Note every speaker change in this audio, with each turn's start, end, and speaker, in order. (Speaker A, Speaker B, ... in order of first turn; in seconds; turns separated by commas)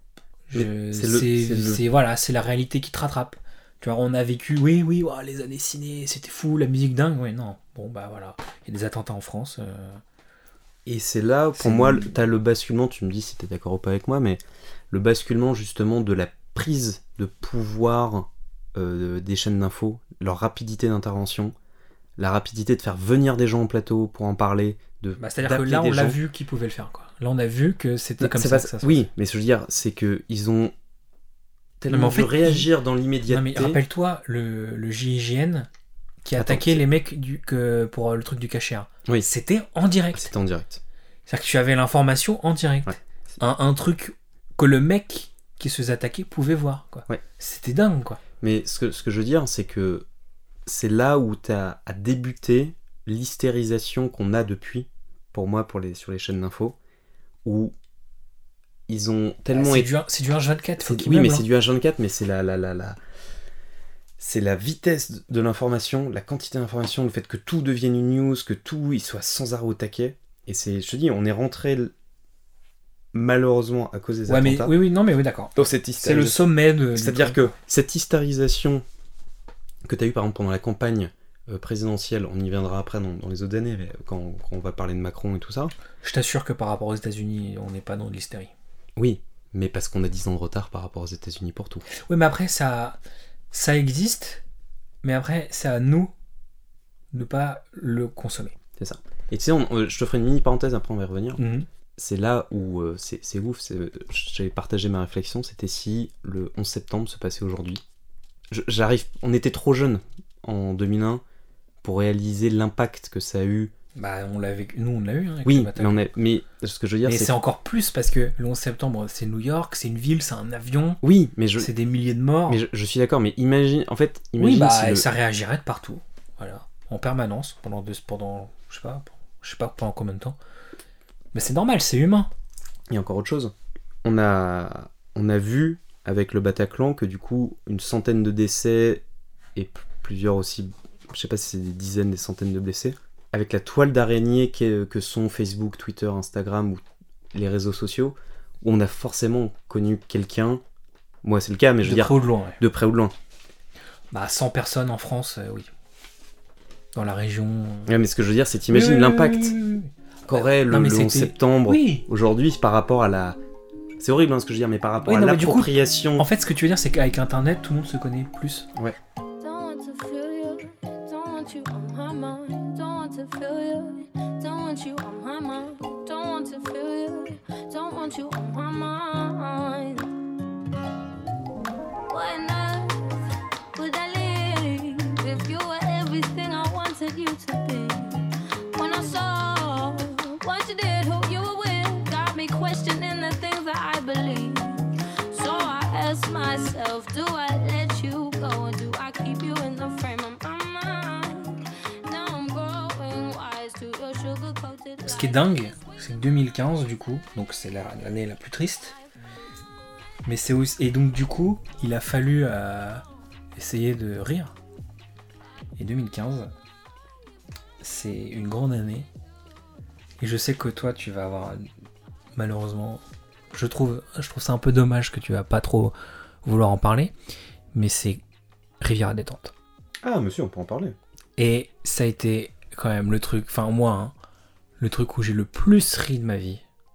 Speaker A: 0.5-10.0, Speaker B: 0.5-1.8, Speaker B: 10.9-21.6, Speaker A: 11.6-12.1, Speaker B: 22.2-26.2, Speaker A: 25.2-29.1, Speaker B: 28.2-30.7, Speaker B: 31.8-33.8, Speaker A: 31.9-32.7, Speaker A: 33.3-35.7, Speaker A: 36.2-40.3, Speaker B: 36.4-36.8, Speaker B: 40.1-40.8, Speaker A: 41.3-48.2, Speaker B: 48.4-50.1, Speaker B: 50.7-56.8, Speaker B: 57.4-57.7, Speaker B: 58.9-59.9, Speaker A: 59.5-61.5, Speaker B: 60.8-63.0, Speaker B: 64.2-71.9, Speaker B: 73.1-74.8, Speaker A: 74.3-77.5, Speaker B: 75.6-78.8, Speaker B: 79.9-85.7, Speaker A: 86.0-88.5, Speaker B: 89.0-91.9, Speaker A: 91.9-93.0, Speaker A: 93.5-94.4, Speaker A: 95.0-96.1, Speaker A: 97.1-98.5, Speaker B: 98.8-101.4, Speaker A: 101.4-101.7, Speaker B: 102.0-107.8, Speaker B: 108.5-111.2, Speaker B: 111.8-113.7, Speaker A: 114.0-116.0, Speaker B: 115.5-117.3, Speaker A: 117.0-121.0, Speaker B: 121.0-121.7, Speaker A: 121.6-122.6, Speaker B: 122.5-125.1, Speaker A: 124.4-130.4, Speaker A: 131.3-132.3, Speaker B: 132.9-133.5, Speaker B: 134.0-139.0, Speaker B: 139.6-150.6, Speaker B: 151.2-153.1, Speaker A: 151.8-152.6, Speaker A: 154.1-155.7, Speaker A: 156.9-157.9, Speaker B: 157.9-159.6, Speaker A: 158.7-162.1, Speaker B: 160.3-163.4, Speaker B: 164.0-166.3, Speaker A: 165.1-168.7, Speaker C: 169.4-180.1, Speaker C: 182.1-183.1, Speaker C: 183.8-205.6, Speaker A: 205.0-209.0, Speaker A: 210.2-213.0, Speaker A: 213.6-214.6, Speaker A: 215.8-216.5, Speaker A: 217.8-219.1, Speaker A: 220.2-221.7, Speaker A: 222.3-227.1, Speaker A: 227.7-228.2, Speaker A: 228.8-229.5, Speaker B: 230.0-231.0, Speaker A: 231.4-234.1, Speaker A: 234.8-236.6